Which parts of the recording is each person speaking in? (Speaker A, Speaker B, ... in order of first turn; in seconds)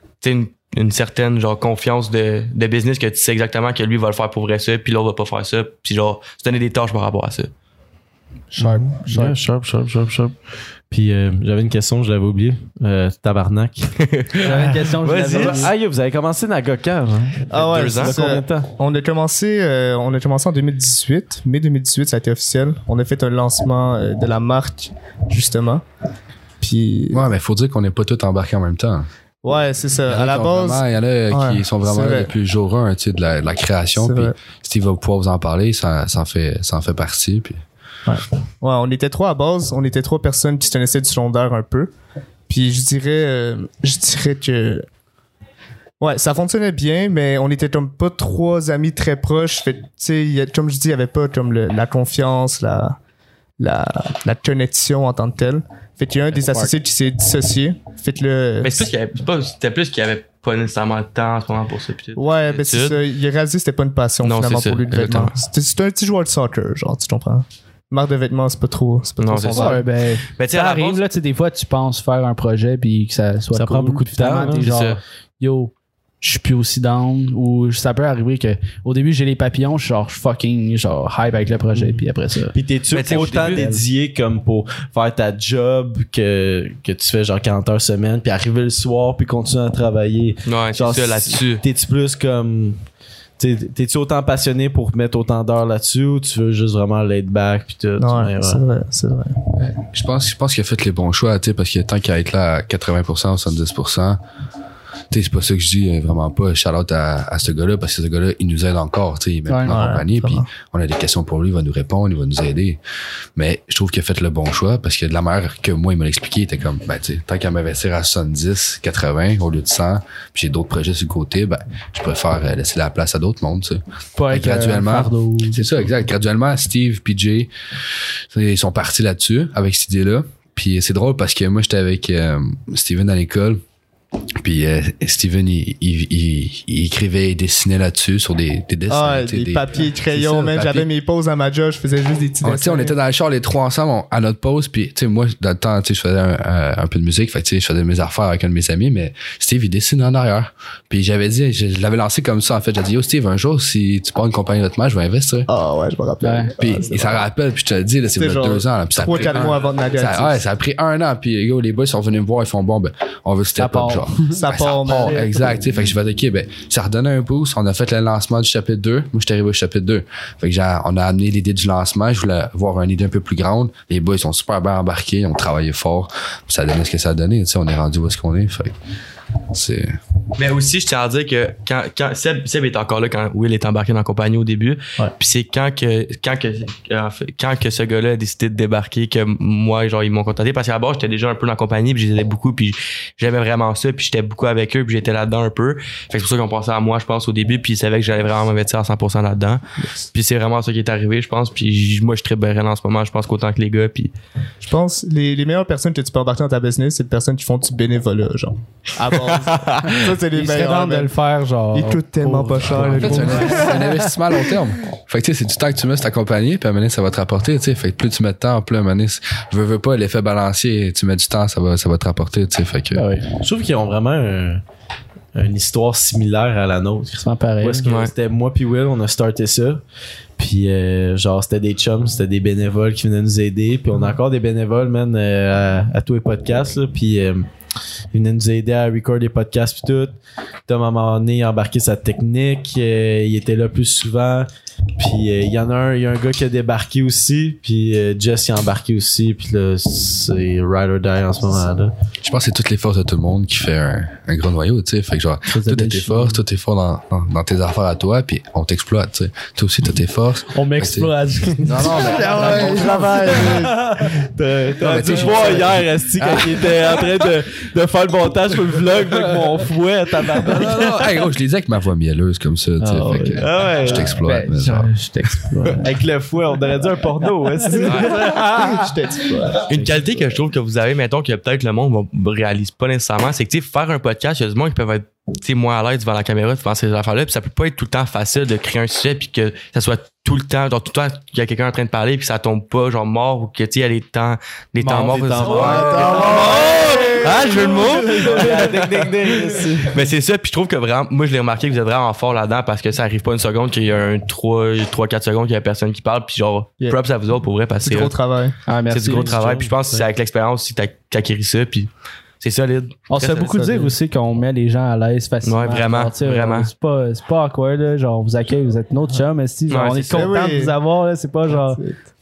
Speaker A: 0.2-7.5, 14.0-15.7, 17.6-18.2, 58.6-63.0, 64.2-65.3, 69.2-71.0, 74.7-75.0, 82.9-83.6, 90.5-91.6, 180.3-199.6, 200.1-204.1, 209.1-209.5, 227.8-228.1, 277.8-278.2, 279.6-299.1, 299.8-308.1, 308.9-311.9, 312.4-313.8, 315.4-316.7, 319.7-320.3
Speaker B: 8.6-9.4, 14.4-15.7, 56.4-56.7, 69.5-83.8, 109.5-109.8, 124.2-125.9, 156.2-156.5, 163.6-164.4, 210.3-214.1, 222.9-223.3, 227.2-227.8, 255.5-256.4, 260.5-264.2, 272.8-275.9, 277.6-278.9, 295.4-296.2, 308.6-309.4, 313.1-321.8
Speaker C: 8.6-10.3, 10.9-14.6, 15.1-18.7, 73.5-74.7, 81.7-82.0, 82.5-92.8, 93.4-98.6, 223.4-224.6, 225.3-229.8, 230.4-237.5, 238.1-251.9, 263.4-271.1, 273.4-274.1, 275.7-278.4, 294.8-296.9, 298.1-300.0, 309.0-310.0
Speaker D: 17.5-25.8, 26.6-27.2, 29.4-32.3, 34.0-34.3, 38.1-41.9, 42.5-44.8, 46.0-53.0, 53.6-58.8, 62.2-69.8, 98.0-99.4, 109.7-110.5, 138.9-142.9, 155.5-157.2, 158.2-160.4, 164.3-165.4, 204.6-211.1, 211.7-213.8, 262.0-263.8, 278.1-279.7, 295.4-298.8, 307.8-308.6, 320.1-320.8, 321.5-322.0
Speaker E: 27.1-29.1, 30.1-37.6, 99.5-104.2, 105.1-112.8, 113.3-127.5, 128.3-133.6, 134.4-140.9, 142.4-155.5, 156.6-178.8, 179.5-180.0, 212.8-223.1, 252.2-263.6, 264.8-266.6, 270.4-274.9